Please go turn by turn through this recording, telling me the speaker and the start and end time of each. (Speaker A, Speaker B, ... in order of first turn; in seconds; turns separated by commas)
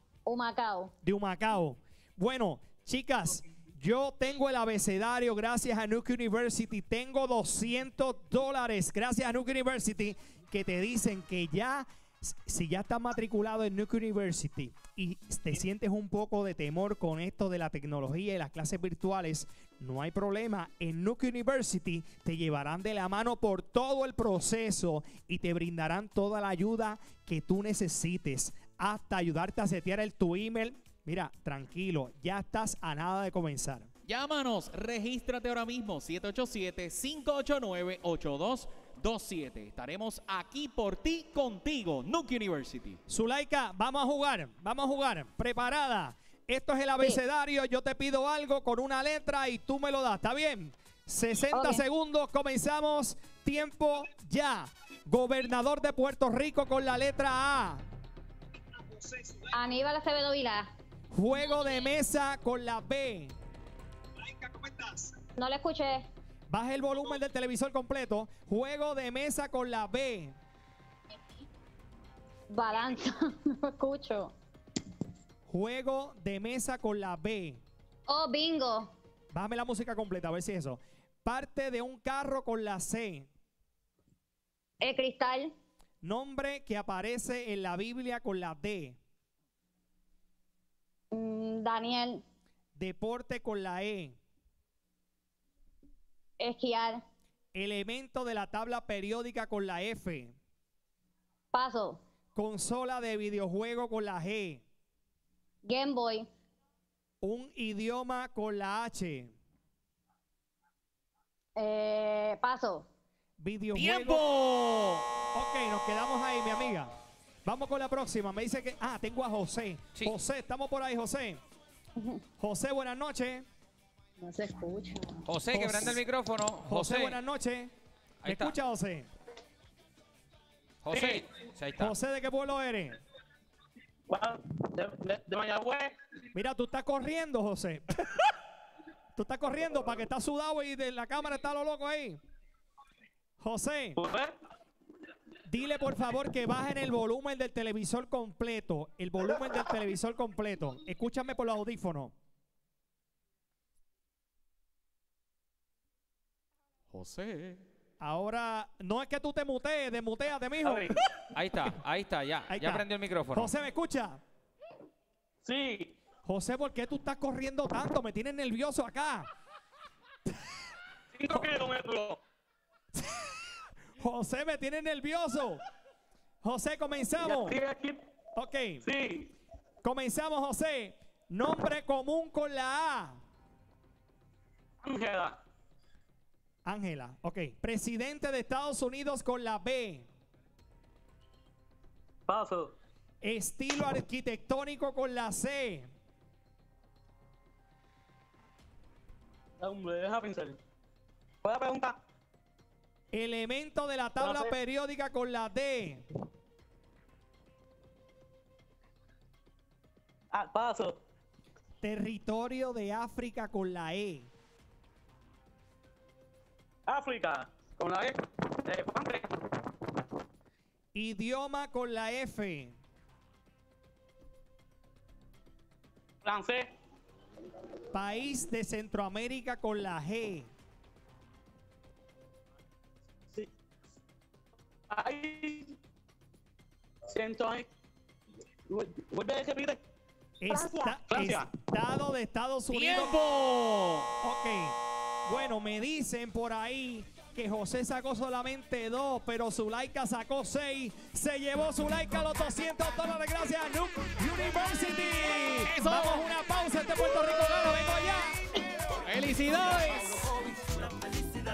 Speaker A: 0.2-0.9, Speaker B: 1.0-33.9, Speaker C: 34.0-43.0, Speaker B: 43.1-57.8, Speaker A: 51.5-51.8, Speaker A: 59.5-60.7, Speaker B: 61.1-63.3, Speaker B: 64.3-65.1, Speaker A: 65.3-66.1, Speaker B: 66.5-70.3, Speaker A: 72.5-74.3, Speaker B: 75.5-77.6, Speaker A: 78.1-78.9, Speaker B: 79.3-83.3, Speaker A: 84.8-85.5, Speaker B: 86.0-89.0, Speaker A: 91.1-92.2, Speaker B: 92.7-94.2, Speaker A: 96.4-97.0, Speaker B: 97.5-100.3, Speaker A: 101.5-102.0, Speaker B: 102.3-104.6, Speaker A: 105.6-106.3, Speaker B: 107.2-109.3, Speaker A: 111.5-112.9, Speaker B: 113.4-114.2, Speaker C: 113.7-115.1, Speaker B: 115.3-116.9, Speaker B: 117.4-121.4, Speaker B: 122.4-123.4, Speaker A: 124.2-125.3, Speaker D: 125.3-127.2, Speaker B: 125.5-126.0, Speaker B: 126.6-127.7, Speaker D: 128.2-128.5, Speaker B: 128.2-129.1, Speaker D: 130.8-131.9, Speaker E: 130.9-131.3, Speaker B: 131.8-133.0, Speaker E: 134.1-136.0, Speaker B: 136.3-138.2, Speaker B: 139.1-142.2, Speaker B: 143.4-144.0, Speaker E: 144.0-144.3, Speaker B: 145.4-152.1, Speaker C: 156.9-157.6, Speaker B: 158.0-161.0, Speaker E: 160.6-161.0, Speaker D: 161.3-163.5, Speaker B: 162.5-164.2, Speaker E: 165.4-165.9, Speaker B: 166.2-169.3, Speaker E: 171.1-172.2, Speaker B: 171.3-171.6, Speaker B: 173.0-173.2, Speaker B: 174.0-175.6, Speaker B: 176.4-177.6, Speaker E: 177.2-178.0, Speaker B: 178.3-178.9, Speaker E: 178.8-179.3, Speaker B: 179.8-183.2, Speaker E: 184.8-185.4, Speaker B: 186.6-190.1, Speaker E: 192.3-192.8, Speaker B: 193.2-195.9, Speaker E: 199.6-200.6, Speaker E: 201.4-202.0, Speaker B: 203.1-206.1, Speaker E: 204.2-204.5, Speaker E: 210.3-211.0, Speaker B: 211.8-214.3, Speaker E: 216.9-219.6, Speaker B: 220.9-222.8, Speaker E: 226.2-226.7, Speaker B: 227.9-230.5, Speaker E: 234.9-235.8, Speaker E: 237.1-237.7, Speaker E: 238.7-239.8, Speaker B: 240.4-243.2, Speaker E: 240.5-241.5, Speaker C: 242.7-244.1, Speaker B: 244.2-258.3, Speaker C: 255.7-256.2, Speaker C: 259.0-260.2